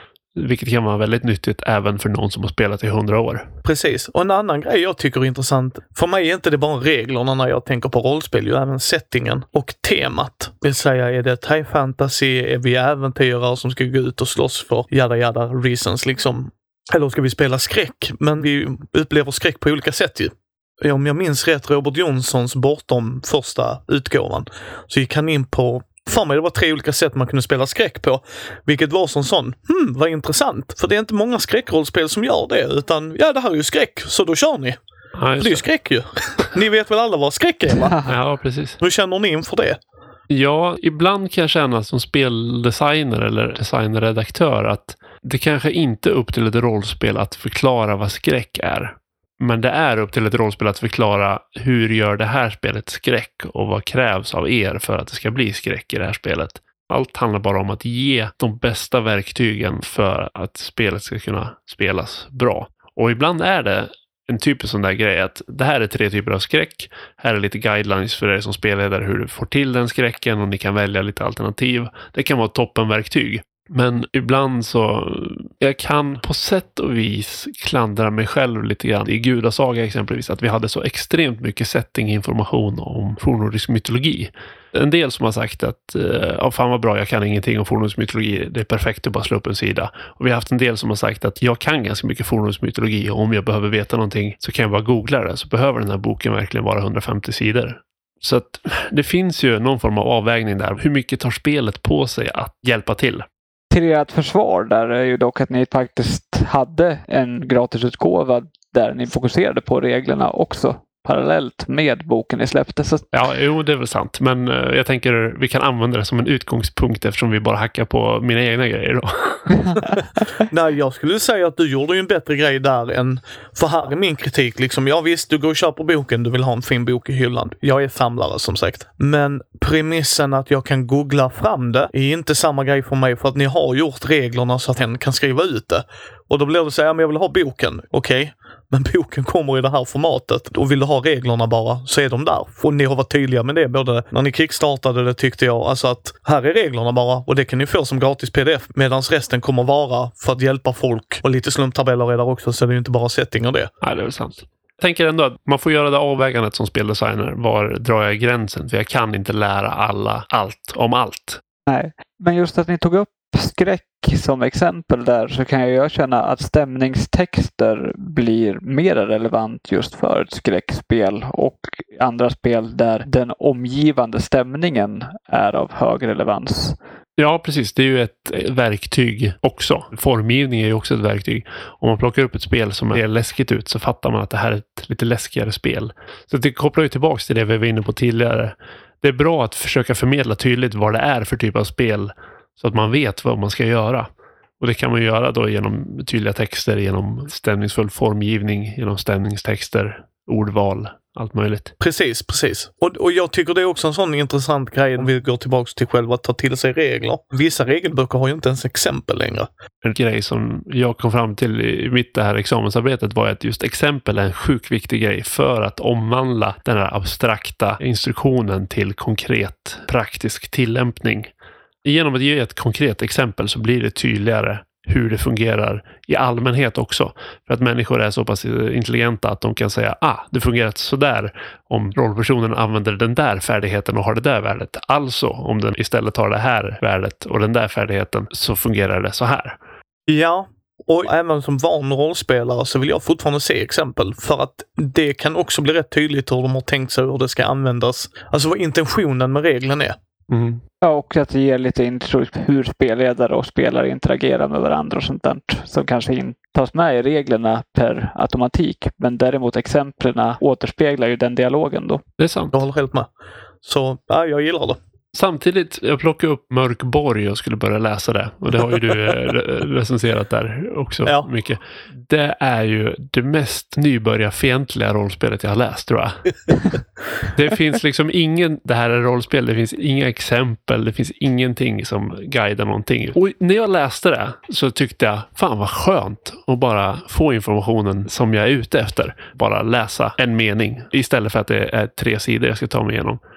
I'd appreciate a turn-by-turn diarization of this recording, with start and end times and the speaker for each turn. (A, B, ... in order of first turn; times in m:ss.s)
0:00.4-0:03.4 A
0:03.6-0:34.8 B
0:35.2-0:35.6 A
0:35.4-0:38.1 B
0:38.0-0:38.8 A
0:38.8-0:39.8 B
0:40.3-1:43.2 A
1:43.7-1:53.1 C
1:53.1-1:59.6 A
2:00.4-2:33.7 B
2:33.8-2:41.4 A
2:41.7-2:56.8 C
2:57.2-3:14.1 A
3:14.6-3:21.7 A
3:21.8-3:29.5 B
3:29.8-3:41.3 A
3:41.8-3:59.6 A
4:00.1-4:09.9 B
4:10.3-4:10.6 A
4:10.8-4:22.0 C
4:22.2-4:22.5 A
4:22.5-4:23.1 B
4:23.6-4:24.8 B
4:25.1-4:36.7 A
4:37.2-4:53.2 A